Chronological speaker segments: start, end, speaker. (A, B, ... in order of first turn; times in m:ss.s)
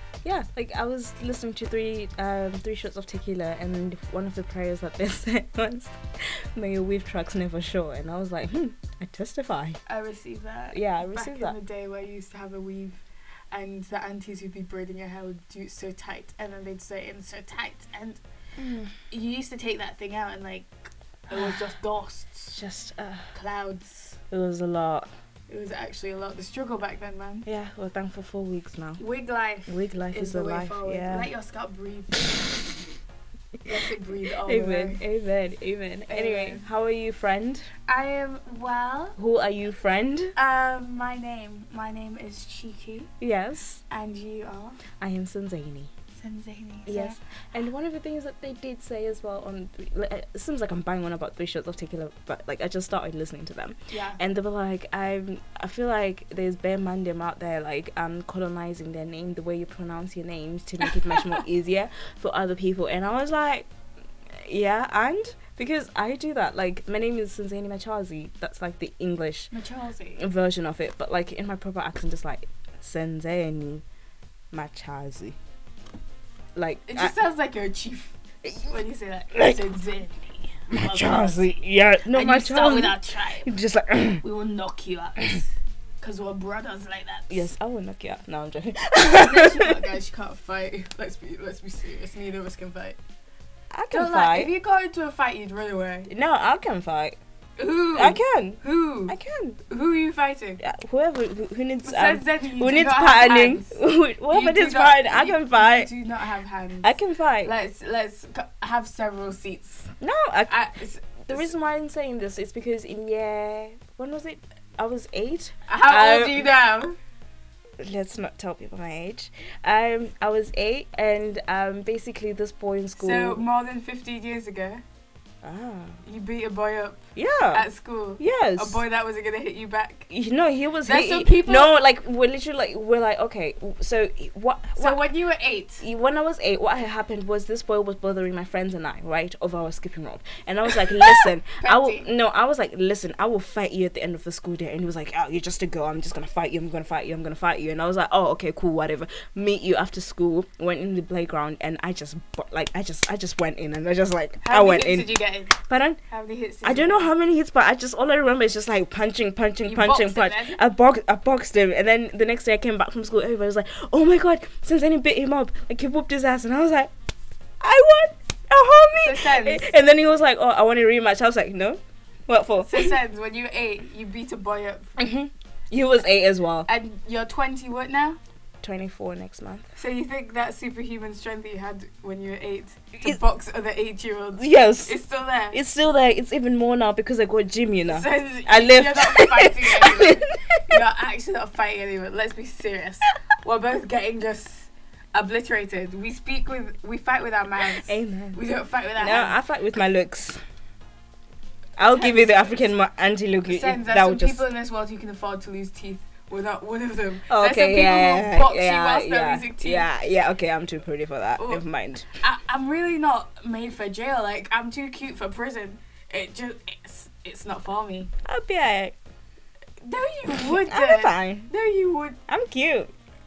0:00.2-0:09.8 A
0:09.8-0:18.2 B
0:10.7-0:11.6 A
0:18.6-0:19.0 A
0:19.1-0:22.6 B
0:21.3-0:21.6 A
0:22.5-0:23.3 A
0:23.3-0:24.2 B
0:24.3-0:25.1 A
0:25.5-0:27.5 B
0:27.4-0:29.0 A
0:29.0-0:32.7 B
0:29.7-0:31.3 A
0:33.6-0:35.0 B
0:34.4-0:37.7 A
0:36.1-0:36.6 B
0:37.9-0:39.2 B
0:39.2-0:40.3 A
0:40.4-0:43.1 B
0:43.2-0:43.8 A
0:43.9-0:44.8 B
0:45.0-0:45.9 A
0:46.2-0:47.2 B
0:46.9-1:03.7 A
0:53.9-0:54.2 B
1:04.3-1:09.5 A
1:09.5-1:10.2 B
1:10.2-1:13.8 A
1:14.5-1:15.4 A
1:16.5-1:17.1 A
1:16.9-1:21.5 B
1:19.3-1:19.6 A
1:20.7-1:24.2 A
1:22.1-1:23.5 B
1:24.2-1:27.4 B
1:27.3-1:29.8 A
1:29.0-1:33.0 B
1:33.7-1:34.5 A
1:33.9-1:36.1 B
1:36.1-1:37.2 A
1:37.6-1:39.1 B
1:37.9-1:39.6 A
1:39.7-1:40.6 B
1:40.6-1:45.9 A
1:41.8-1:43.8 B
1:44.3-1:46.9 B
1:46.8-1:47.5 A
1:47.4-1:49.9 B
1:50.0-1:50.7 A
1:50.5-1:51.5 B
1:51.3-1:56.5 A
1:55.7-1:57.0 B
1:57.8-2:03.4 A
2:03.0-2:04.8 B
2:05.4-2:06.0 A
2:06.0-2:10.1 B
2:07.1-2:07.6 A
2:08.2-2:08.8 A
2:10.1-2:15.0 A
2:10.8-2:11.7 B
2:14.8-2:15.8 B
2:15.8-2:36.0 A
2:21.1-2:22.1 B
2:34.4-2:37.1 B
2:36.6-2:46.9 A
2:39.6-2:40.6 B
2:47.6-2:53.0 A
2:49.0-2:49.7 B
2:52.6-2:55.0 B
2:55.0-2:56.7 A
2:56.6-2:58.2 B
2:58.6-2:59.7 A
2:59.8-3:05.6 B
3:04.4-3:05.0 A
3:05.5-3:10.8 A
3:07.9-3:19.4 B
3:17.7-3:18.4 A
3:19.0-3:20.4 A
3:21.8-3:24.4 A
3:21.8-3:22.7 B
3:23.5-3:29.9 B
3:27.3-3:32.1 A
3:31.4-3:38.1 B
3:38.2-3:39.0 A
3:39.8-3:42.2 B
3:40.3-3:41.5 A
3:42.3-3:42.9 A